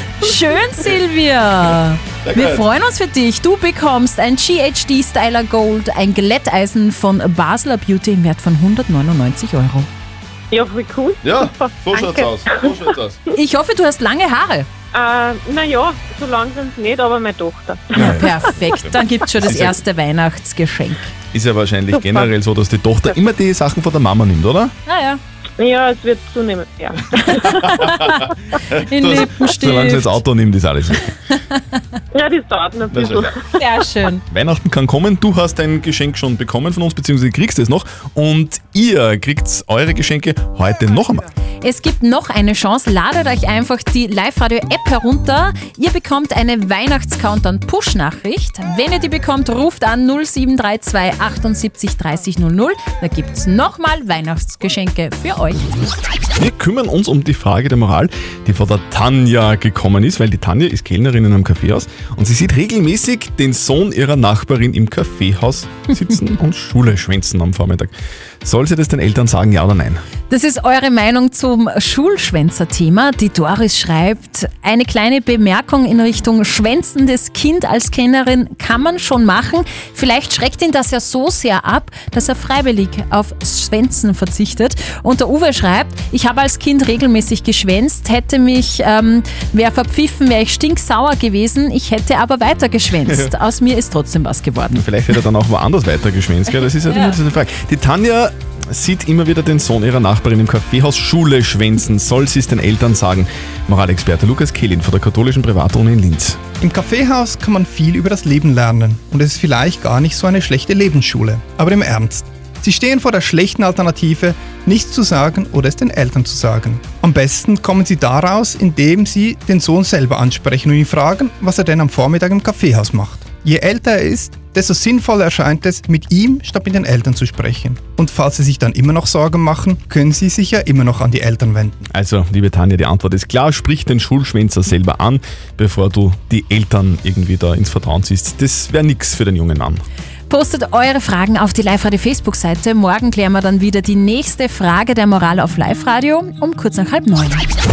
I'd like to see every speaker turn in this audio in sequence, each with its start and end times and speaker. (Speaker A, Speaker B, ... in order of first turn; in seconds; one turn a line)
Speaker A: 0.2-9.9
Speaker B: 2.2-2.7
Speaker C: 10.5-12.7
Speaker B: 11.2-13.2
Speaker A: 13.4-14.7
Speaker C: 14.9-18.2
Speaker A: 17.9-21.1
Speaker B: 18.0-18.3
Speaker B: 18.8-19.8
Speaker B: 21.3-24.7
Speaker C: 21.9-22.3
Speaker A: 24.9-25.2
Speaker C: 25.6-27.6
Speaker A: 27.5-28.2
Speaker B: 28.7-31.1
Speaker A: 28.8-30.2
Speaker C: 32.1-33.6
Speaker B: 32.9-33.3
Speaker A: 33.5-34.2
Speaker B: 34.3-41.3
Speaker A: 41.6-55.8
Speaker B: 56.4-70.0
Speaker A: 70.3-94.8
Speaker B: 93.1-93.3
Speaker B: 94.7-106.4
Speaker A: 96.9-97.2
Speaker D: 106.6-131.9
Speaker B: 131.9-139.8
Speaker A: 140.3-147.5